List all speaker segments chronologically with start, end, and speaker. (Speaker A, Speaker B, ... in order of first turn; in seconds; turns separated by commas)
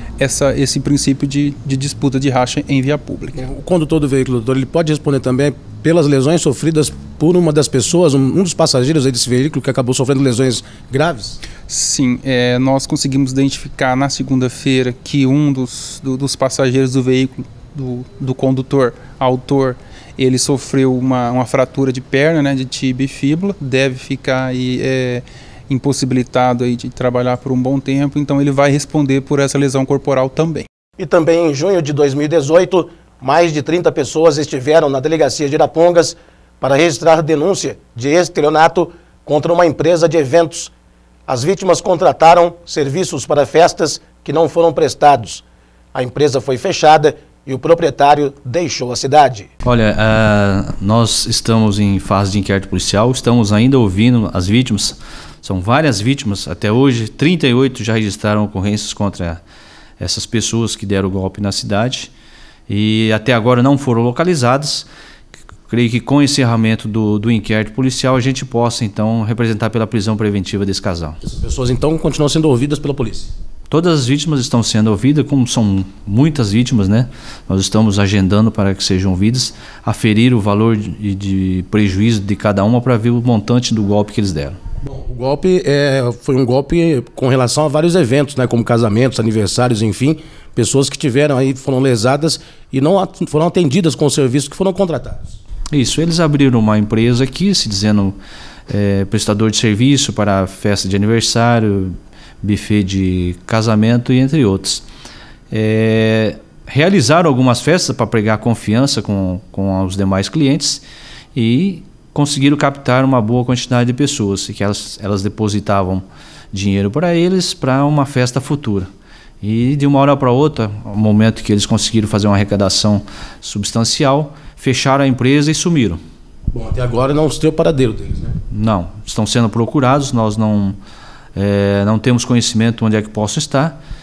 Speaker A: 0.2-3.4, Speaker B: 3.4-11.4, Speaker A: 11.7-30.7, Speaker B: 31.0-40.7, Speaker B: 41.3-49.5, Speaker C: 49.6-59.4, Speaker C: 60.0-62.1, Speaker C: 62.7-64.9, Speaker C: 65.7-71.2, Speaker B: 71.2-73.3, Speaker C: 73.7-84.6, Speaker B: 84.8-95.4, Speaker C: 95.7-98.2, Speaker C: 98.7-104.9, Speaker C: 105.5-110.8, Speaker C: 111.3-126.0, Speaker B: 126.5-128.3, Speaker C: 128.5-130.8, Speaker C: 131.3-133.8